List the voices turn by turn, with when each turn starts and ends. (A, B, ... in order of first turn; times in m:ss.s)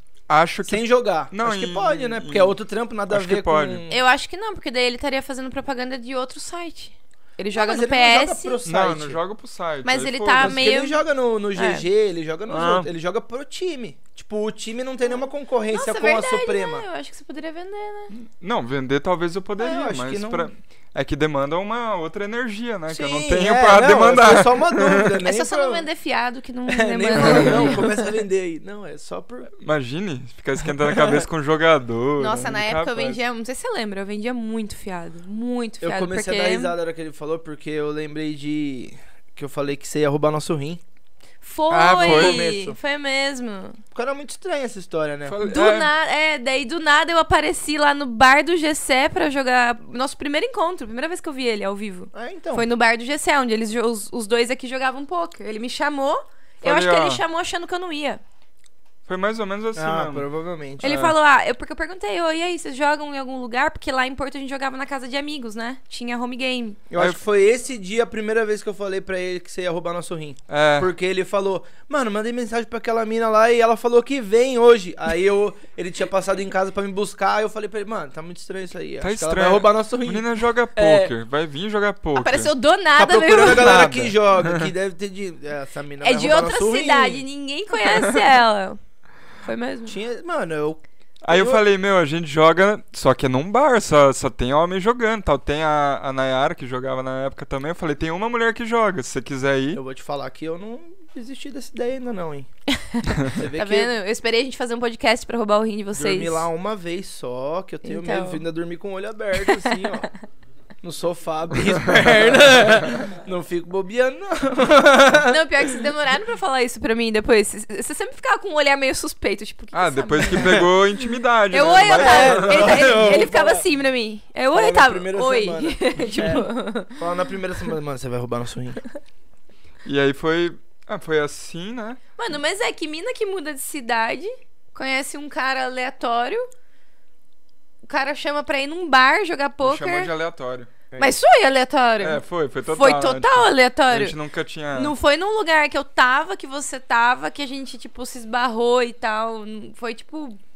0:00.3-0:02.6 A
0:00.6-0:04.0 B
0:03.1-0:03.8 A
0:03.9-0:08.6 C
0:07.5-0:09.2 B
0:08.6-0:10.6 A
0:09.8-0:11.0 C
0:10.4-0:16.8 B
0:11.5-0:11.9 C
0:12.5-0:12.9 A
0:15.7-0:18.1 C
0:18.1-0:25.2 A
0:19.6-0:20.5 B
0:22.9-0:25.8 B
0:25.2-0:28.1 C
0:26.7-0:29.5 B
0:27.2-0:27.8 A
0:29.6-0:33.2 A
0:30.8-0:31.2 B
0:32.2-0:36.8 C
0:35.8-0:40.8 B
0:41.4-0:43.8 C
0:41.7-0:42.5 A
0:41.9-0:42.8 B
0:43.9-0:45.4 B
0:45.2-0:45.9 A
0:45.4-0:58.2 C
0:52.1-0:52.7 B
0:56.6-0:57.2 A
0:59.1-1:00.3 A
0:59.7-1:01.0 B
1:00.8-1:06.8 C
1:00.8-1:01.2 A
1:06.9-1:20.2 B
1:10.5-1:10.9 A
1:19.0-1:22.5 A
1:20.8-1:21.1 C
1:22.2-1:23.9 C
1:23.0-1:27.2 B
1:23.3-1:24.7 A
1:26.0-1:28.8 C
1:29.4-1:30.0 C
1:29.9-1:31.6 B
1:31.2-1:39.8 A
1:39.7-1:42.5 B
1:42.7-1:46.5 C
1:43.2-1:43.9 B
1:45.9-1:50.1 B
1:47.8-1:48.4 C
1:49.4-1:50.2 C
1:50.8-1:55.7 B
1:55.2-2:00.7 C
1:59.7-2:03.0 A
2:01.5-2:07.0 C
2:01.8-2:03.7 B
2:04.5-2:08.8 B
2:09.8-2:12.0 A
2:12.2-2:16.4 C
2:17.8-2:20.1 C
2:19.6-2:20.7 A
2:21.0-2:24.2 C
2:22.0-2:24.9 A
2:24.7-2:30.4 C